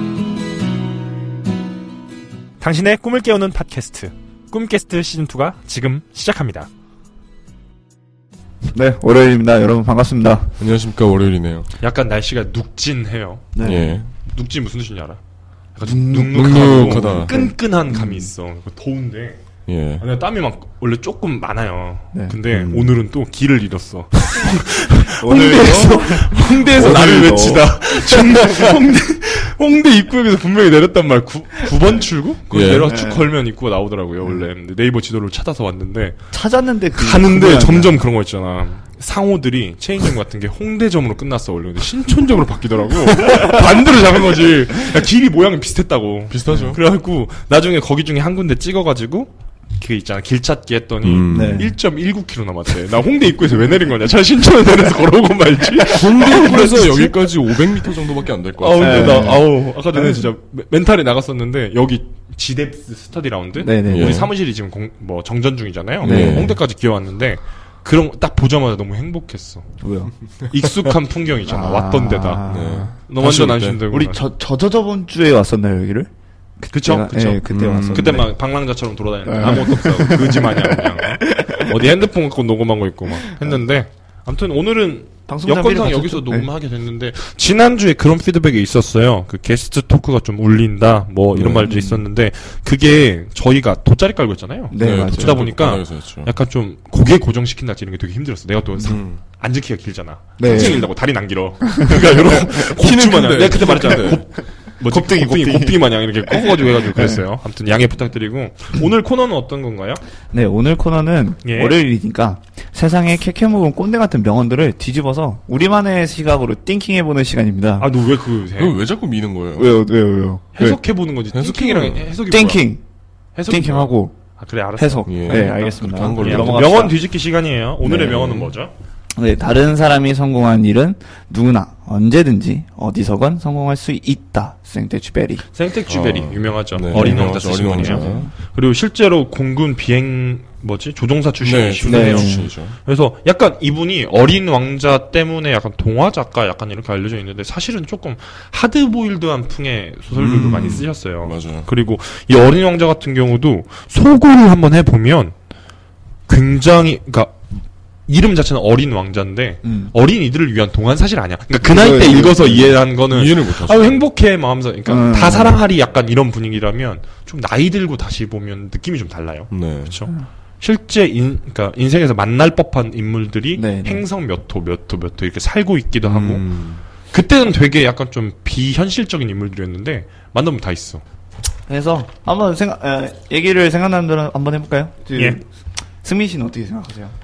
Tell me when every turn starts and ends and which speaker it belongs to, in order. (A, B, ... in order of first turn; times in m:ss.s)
0:02.6-0:06.7 A
0:08.7-0:10.6 B
0:10.6-0:11.7 C
0:11.8-0:13.5 A
0:13.5-0:14.0 B
0:13.6-0:14.1 C
0:14.1-0:15.2 A
0:15.7-0:19.4 A
0:15.8-0:18.3 B
0:16.4-0:17.3 C
0:19.6-0:20.0 C
0:20.0-0:36.2 A
0:22.1-0:22.4 B
0:22.5-0:23.0 C
0:25.1-0:28.8 B
0:32.5-0:32.9 C
0:32.7-0:33.3 B
0:36.3-0:38.0 B
0:36.9-0:57.3 A
0:46.3-0:46.8 C
0:46.5-0:46.8 B
0:51.0-0:51.7 C
0:51.3-0:51.7 B
0:55.9-0:59.4 C
0:58.6-1:09.6 A
0:58.8-1:00.3 B
1:03.6-1:04.3 B
1:03.9-1:04.3 C
1:06.0-1:06.6 B
1:06.0-1:06.6 C
1:09.8-1:10.1 B
1:10.5-1:12.4 A
1:11.4-1:13.4 B
1:12.4-1:13.8 C
1:13.0-1:14.2 A
1:13.9-1:18.3 B
1:16.7-1:50.0 A
1:17.5-1:18.3 C
1:19.2-1:21.9 B
1:23.2-1:23.6 B
1:25.3-1:26.5 B
1:31.3-1:31.9 C
1:31.6-1:32.0 B
1:34.7-1:35.4 B
1:34.8-1:36.3 C
1:38.8-1:39.2 C
1:40.4-1:40.9 B
1:40.4-1:40.8 C
1:41.6-1:42.0 B
1:41.9-1:44.2 C
1:44.8-1:47.2 B
1:50.3-1:57.9 B
1:51.4-1:51.8 A
1:57.8-1:58.8 A
1:58.5-1:59.7 C
1:59.6-2:00.8 B
2:00.5-2:02.6 A
2:01.3-2:02.2 C
2:02.3-2:02.8 B
2:03.3-2:08.7 A
2:03.5-2:04.2 B
2:04.8-2:07.0 B
2:05.1-2:06.8 C
2:07.8-2:08.5 B
2:09.2-2:15.4 B
2:15.5-2:35.3 A
2:15.9-2:18.3 C
2:16.9-2:18.3 B
2:21.4-2:22.8 C
2:21.8-2:22.5 B
2:30.1-2:31.7 C
2:36.3-2:37.4 A
2:38.1-2:56.4 A
2:39.6-2:39.9 B
2:41.6-2:42.8 B
2:43.0-2:44.0 C
2:44.8-2:45.6 B
2:49.5-2:50.0 C
2:53.5-2:54.0 B
2:56.0-2:56.8 C
2:57.1-3:01.0 A
3:01.7-3:05.4 B
3:05.1-3:05.4 A
3:06.0-3:07.1 B